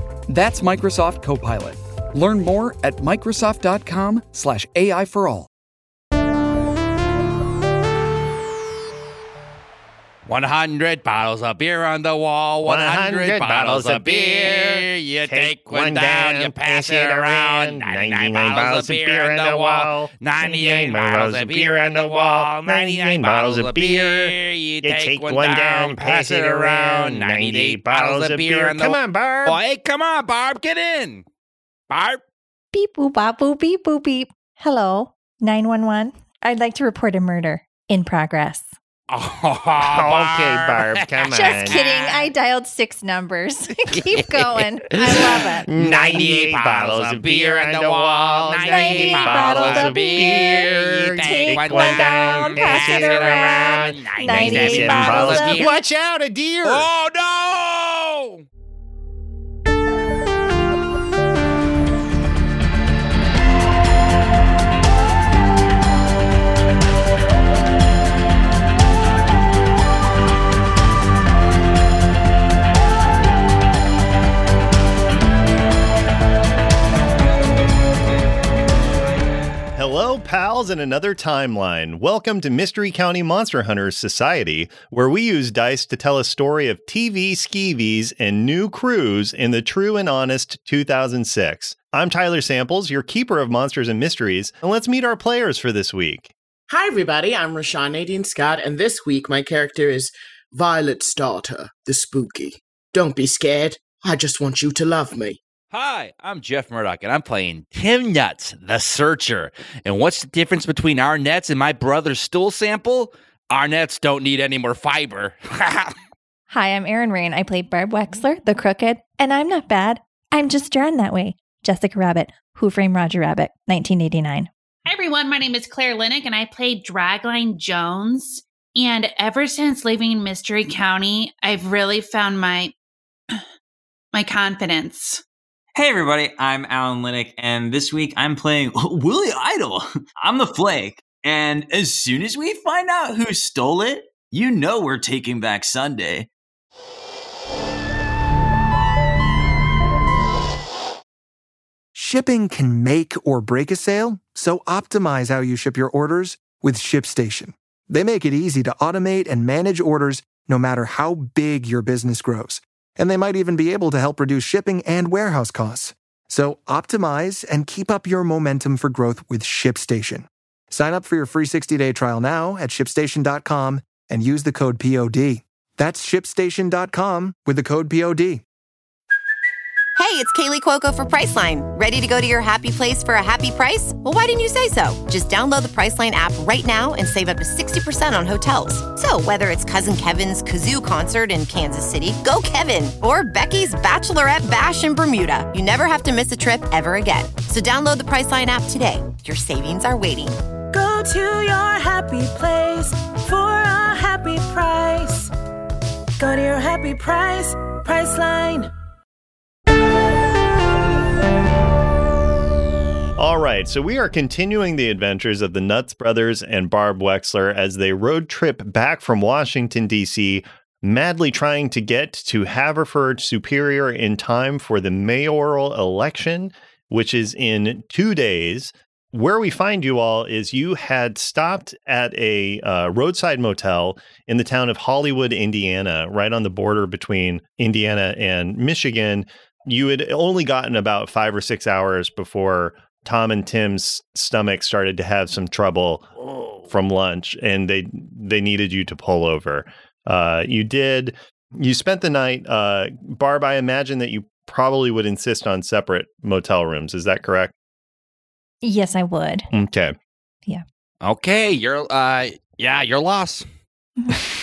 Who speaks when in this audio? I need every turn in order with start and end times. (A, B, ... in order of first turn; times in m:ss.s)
0:00.3-0:05.5 A
0:10.2-0:31.2 B
0:12.6-0:29.6 C
0:31.9-0:32.2 B
0:32.7-0:38.8 D
0:39.1-0:42.2 B
0:39.8-0:41.8 C
0:41.3-0:45.7 D
0:43.9-0:55.8 B
0:45.7-0:56.9 C
0:48.7-0:50.7 D
0:51.2-0:55.7 D
0:56.6-0:58.4 B
1:19.8-1:36.3 C
1:36.7-1:45.4 E
1:45.7-1:55.9 B
1:56.5-2:04.5 D
2:04.8-2:12.7 F
2:14.1-2:15.2 F
2:15.8-2:26.3 G
2:31.9-2:58.4 H
3:00.0-3:20.4 I
3:20.7-3:25.3 J
3:26.2-3:28.7 J
3:33.2-4:17.5 C
4:18.6-4:19.5 D
4:19.5-4:19.9 C
4:21.0-4:23.4 B